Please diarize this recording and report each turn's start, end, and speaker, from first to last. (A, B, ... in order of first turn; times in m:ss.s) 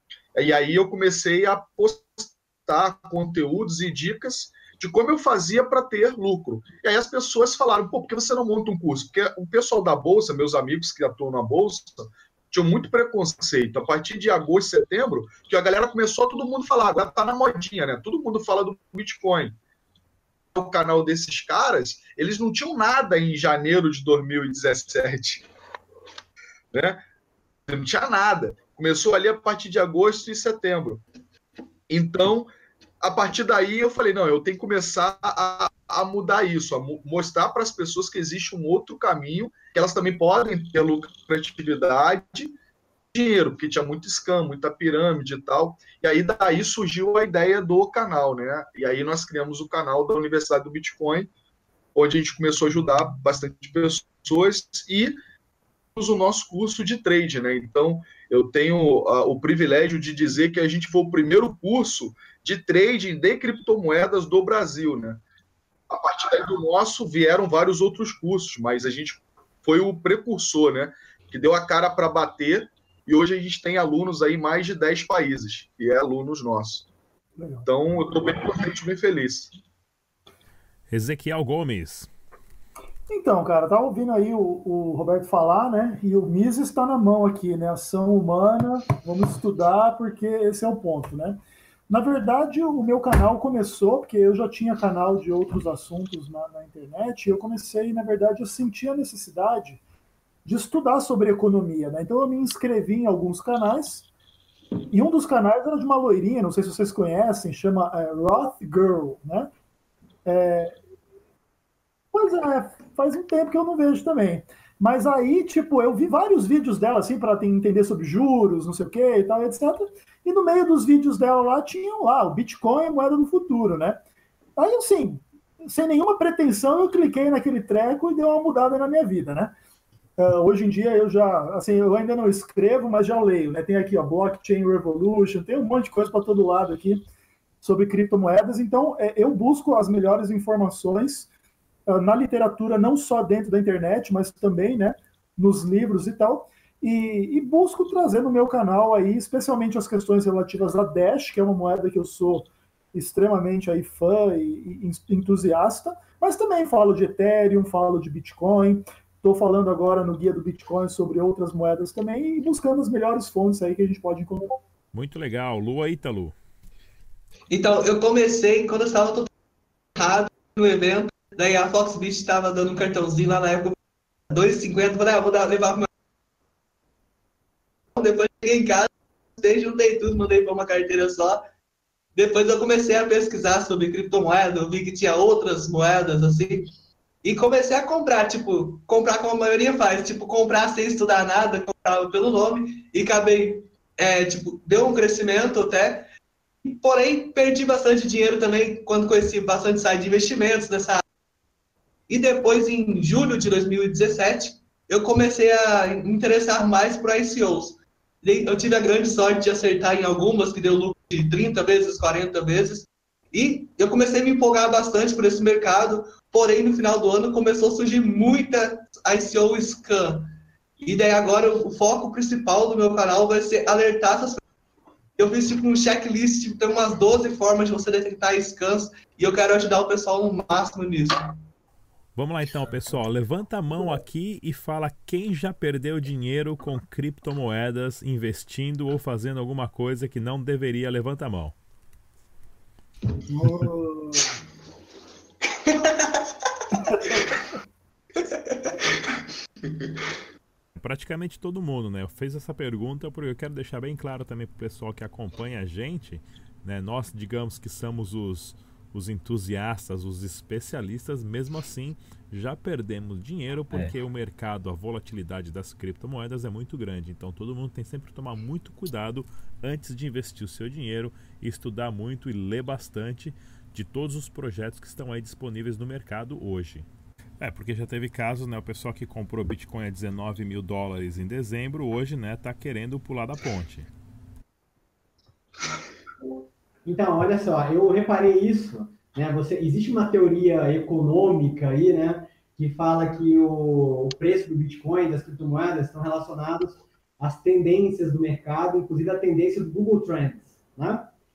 0:00.3-0:19.6 A
0:20.5-0:25.5 A
0:26.7-0:27.0 A
0:27.7-0:31.0 A
0:31.9-0:42.5 A
0:43.1-0:51.3 A
0:51.9-0:55.2 A
0:56.0-1:05.2 A
1:05.9-1:16.9 A
1:17.4-1:17.6 B
1:17.6-1:19.5 A
1:20.9-1:22.1 C
1:23.1-1:39.8 B
1:40.4-1:44.1 B
1:44.9-1:49.5 B
1:50.2-1:50.8 B
1:52.1-2:04.0 B
2:04.6-2:09.5 B
2:10.2-2:17.0 B
2:17.6-2:21.3 B
2:21.9-2:44.6 B
2:44.9-2:46.3 C
2:47.5-2:49.3 D
2:50.0-2:53.8 D
2:54.3-2:55.9 D
2:57.9-3:01.4 D
3:02.2-3:06.7 D
3:07.2-3:16.1 D
3:16.6-3:21.0 D
3:22.1-3:40.3 D
3:40.8-3:44.4 D
3:45.2-3:51.2 D
3:52.2-4:01.6 C
4:03.2-4:04.4 B
4:05.6-4:06.3 D
4:06.8-4:07.3 B
4:08.2-4:09.0 D
4:10.8-4:36.9 C
4:37.4-4:43.9 C
4:46.8-5:01.1 E